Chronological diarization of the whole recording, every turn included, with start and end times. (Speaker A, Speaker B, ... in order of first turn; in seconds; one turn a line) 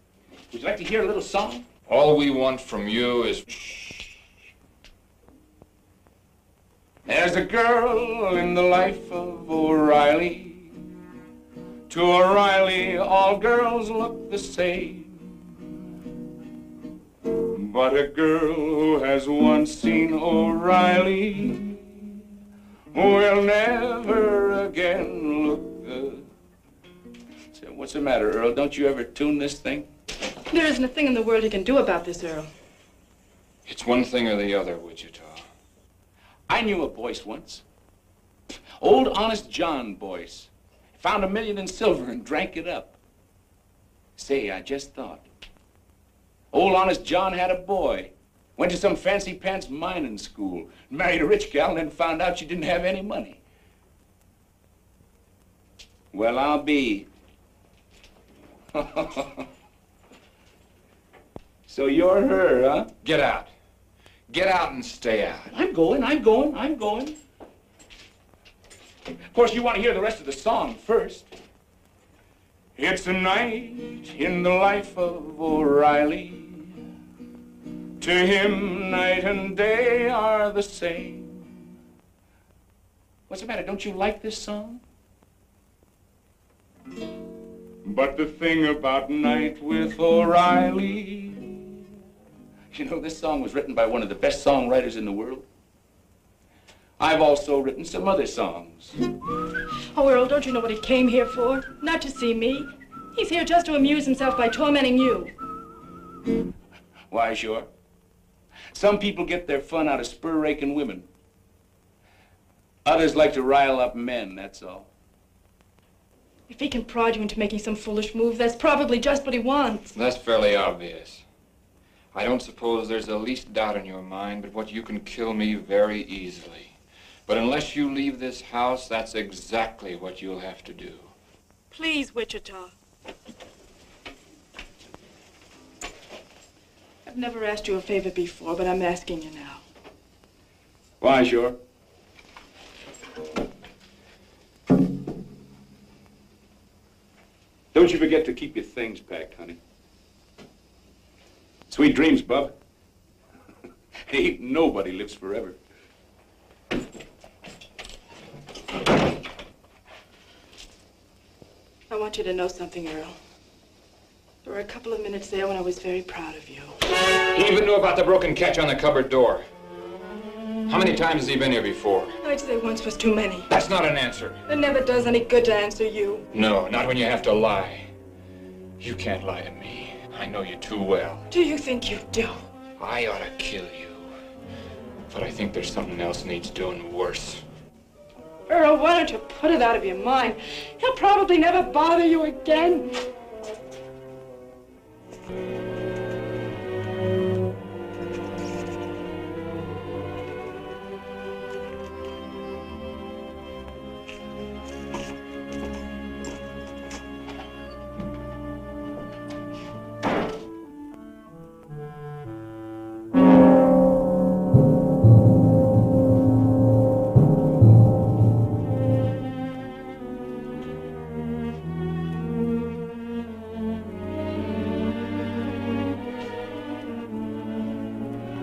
Speaker A: 0.5-1.7
Speaker B: 1.9-3.7
Speaker A: 7.0-10.7
Speaker A: 11.9-15.5
Speaker A: 17.5-22.1
Speaker A: 22.9-26.3
Speaker A: 27.5-29.9
Speaker C: 30.5-32.5
Speaker B: 33.6-35.5
Speaker A: 36.5-37.6
Speaker A: 38.8-42.9
Speaker A: 44.1-45.2
Speaker A: 46.5-53.4
Speaker A: 56.1-57.1
Speaker A: 58.7-59.4
Speaker A: 61.7-62.9
Speaker B: 63.0-63.5
Speaker B: 64.3-65.5
Speaker A: 65.5-67.1
Speaker A: 69.3-71.3
Speaker A: 72.8-76.8
Speaker A: 78.0-81.5
Speaker A: 83.3-84.8
Speaker A: 87.8-91.8
Speaker A: 92.7-95.4
Speaker A: 97.0-99.0
Speaker C: 99.9-105.3
Speaker A: 107.1-107.7
Speaker A: 108.7-111.1
Speaker A: 112.8-114.9
Speaker C: 116.5-120.0
Speaker B: 119.9-121.2
Speaker B: 122.1-126.7
Speaker B: 127.3-131.1
Speaker C: 131.7-132.7
Speaker C: 137.1-139.6
Speaker A: 141.0-141.6
Speaker A: 147.7-149.6
Speaker A: 151.7-152.5
Speaker A: 154.1-155.6
Speaker C: 161.9-163.2
Speaker C: 164.4-166.8
Speaker B: 167.3-169.4
Speaker B: 170.7-172.1
Speaker C: 172.2-173.5
Speaker B: 173.5-174.4
Speaker C: 174.5-176.2
Speaker B: 176.3-177.9
Speaker B: 178.8-181.2
Speaker C: 181.3-182.4
Speaker B: 182.8-184.1
Speaker B: 185.1-187.4
Speaker C: 188.5-192.9